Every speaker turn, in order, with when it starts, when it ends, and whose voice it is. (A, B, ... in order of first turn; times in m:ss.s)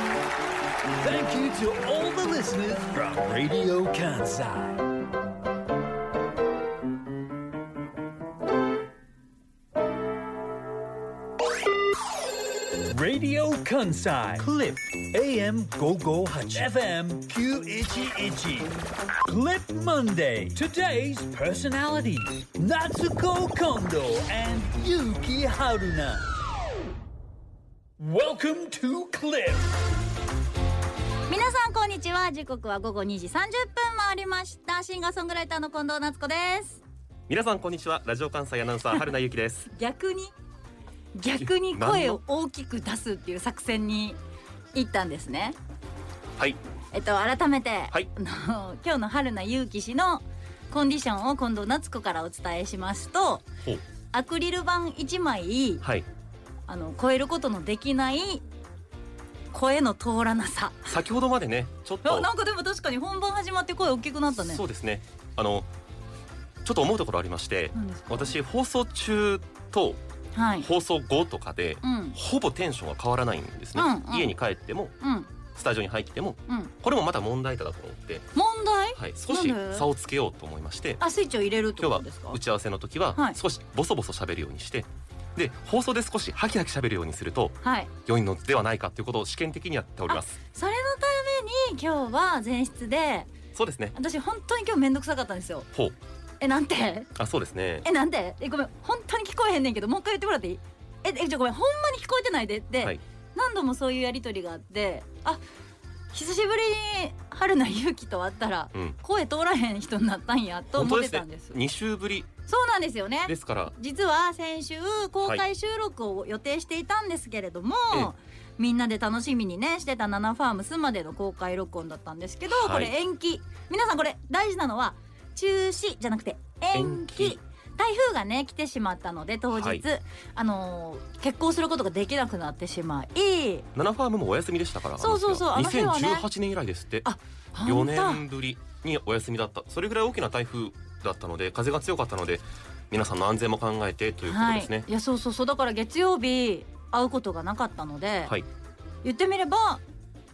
0:01.0-0:04.9 A
0:12.9-0:26.3 A
0:14.4-0:14.8 B
0:28.0-0:29.7 A
0:31.3-0:36.8 C
0:37.3-0:39.7 B
0:39.7-0:40.3 C
0:41.1-0:44.2 C
0:41.4-0:42.2 B
0:44.7-0:45.6 C
0:46.9-0:53.5 C
0:54.1-0:55.8 C
0:56.7-0:58.4 C
0:59.5-1:00.9 C
1:00.9-1:02.3 B
1:02.0-1:04.6 C
1:04.3-1:05.7 B
1:06.6-1:10.0 B
1:07.7-1:08.3 C
1:10.3-1:10.7 C
1:10.6-1:18.3 B
1:11.8-1:12.2 C
1:13.8-1:14.4 C
1:15.0-1:15.3 C
1:18.3-1:19.9 C
1:19.0-1:21.0 B
1:21.0-1:22.4 C
1:21.8-1:30.3 B
1:27.6-1:27.9 C
1:30.1-1:33.3 C
1:33.6-1:34.0 B
1:34.0-1:35.7 C
1:36.4-1:37.1 C
1:37.2-1:37.9 B
1:37.8-1:45.4 C
1:46.1-1:51.6 C
1:50.7-1:52.3 B
1:52.5-2:13.7 C
1:53.3-1:53.7 B
2:02.5-2:02.9 B
2:06.7-2:07.4 B
2:09.5-2:09.8 B
2:13.8-2:17.1 B
2:15.0-2:16.2 C
2:17.0-2:18.2 C
2:17.6-2:24.9 B
2:24.3-2:28.4 C
2:29.0-2:29.8 C